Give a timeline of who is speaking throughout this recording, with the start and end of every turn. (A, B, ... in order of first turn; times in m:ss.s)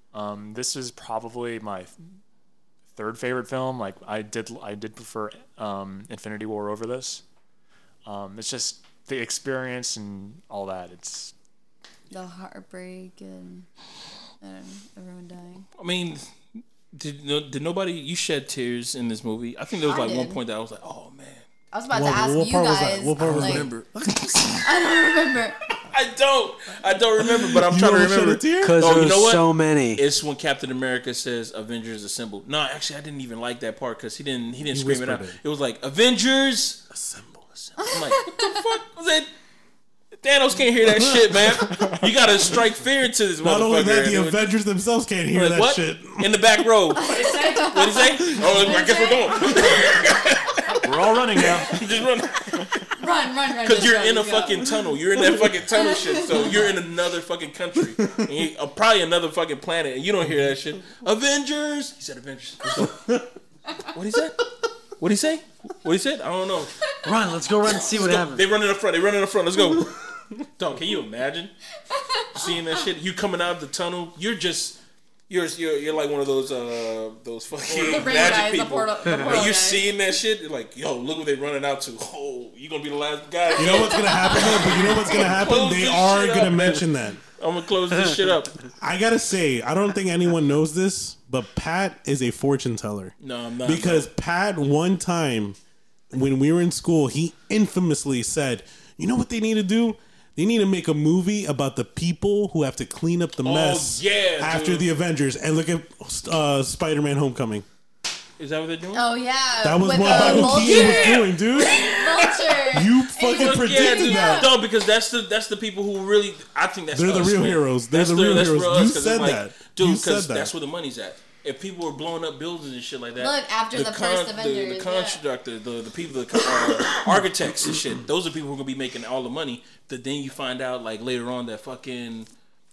0:00.1-0:02.0 A
0:02.9-0:07.2 A
0:08.0-0:11.3 A
0:12.1-0:13.7 B
0:14.4-0:15.7 B
0:15.8-0:21.4 C
0:19.9-0:20.4 B
0:21.7-0:23.7 B
0:21.9-0:24.7 D
0:23.2-0:23.9 C
0:24.6-0:25.6 B
0:25.9-0:36.9 C
0:27.2-0:28.8 D
0:28.6-0:30.0 E
0:34.7-0:35.4 D
0:36.9-0:37.5 D
0:37.8-0:39.3 C
0:37.8-0:38.6 B
0:40.2-0:44.5 C
0:41.0-0:41.8 D
0:43.4-0:46.4 D
0:45.3-0:50.8 C
0:47.0-0:50.0 B
0:50.8-0:51.8 A
0:51.4-0:53.0 C
0:53.0-0:54.7 B
0:53.6-1:03.0 C
0:55.7-0:56.7 B
1:02.7-1:03.3 D
1:03.9-1:04.5 C
1:05.0-1:06.7 C
1:07.0-1:08.5 E
1:07.8-1:11.5 C
1:11.9-1:12.6 B
1:12.3-1:28.6 C
1:17.7-1:19.8 B
1:23.6-1:27.2 D
1:23.6-1:25.2 B
1:28.8-1:35.6 D
1:33.2-1:34.1 C
1:36.1-1:47.7 D
1:43.4-1:44.9 C
1:48.4-1:49.1 C
1:48.9-1:54.5 B
1:49.6-1:51.9 D
1:50.1-1:52.6 C
1:52.7-1:54.5 D
1:53.2-2:12.3 C
1:56.9-2:00.5 D
2:03.2-2:05.2 B